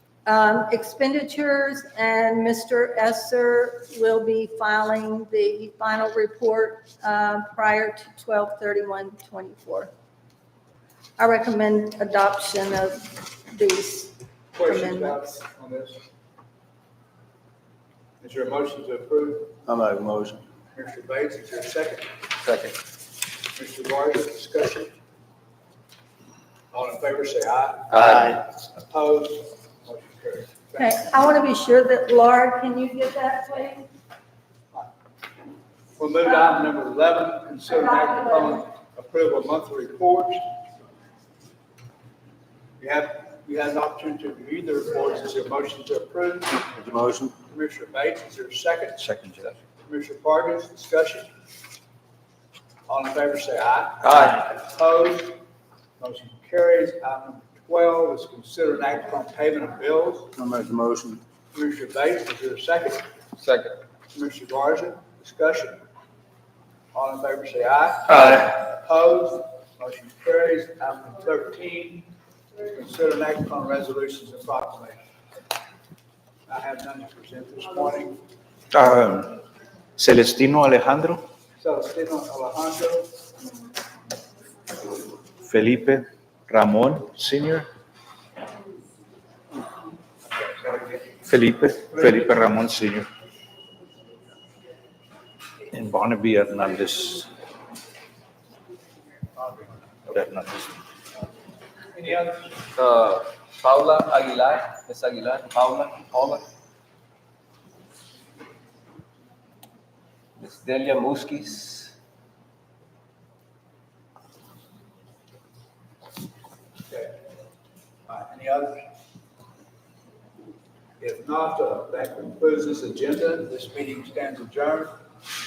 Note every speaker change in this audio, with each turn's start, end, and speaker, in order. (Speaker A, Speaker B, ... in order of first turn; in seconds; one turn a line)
Speaker A: 0.2-9.9
Speaker A: 11.2-15.2
Speaker B: 14.5-16.0
Speaker B: 18.2-19.6
Speaker C: 19.6-20.4
Speaker B: 20.7-22.1
Speaker B: 23.5-24.9
Speaker B: 26.7-30.9
Speaker C: 28.0-28.3
Speaker A: 30.8-33.9
Speaker B: 36.0-40.5
Speaker B: 42.8-46.6
Speaker C: 46.6-47.3
Speaker B: 47.4-49.1
Speaker D: 49.0-49.5
Speaker B: 49.8-51.3
Speaker B: 52.9-55.4
Speaker D: 54.1-54.4
Speaker B: 56.0-60.3
Speaker C: 60.4-61.2
Speaker B: 61.5-63.1
Speaker E: 63.4-63.7
Speaker B: 64.1-65.8
Speaker B: 66.9-75.0
Speaker B: 76.5-78.2
Speaker D: 78.7-79.4
Speaker D: 80.0-81.2
Speaker B: 81.6-83.2
Speaker D: 85.4-87.7
Speaker B: 90.3-91.1
Speaker D: 91.2-93.1
Speaker D: 95.7-97.3
Speaker B: 99.3-100.0
Speaker D: 100.1-100.8
Speaker B: 101.9-102.6
Speaker E: 102.7-106.4
Speaker E: 110.4-111.9
Speaker B: 116.9-117.2
Speaker B: 118.1-118.9
Speaker B: 121.0-125.0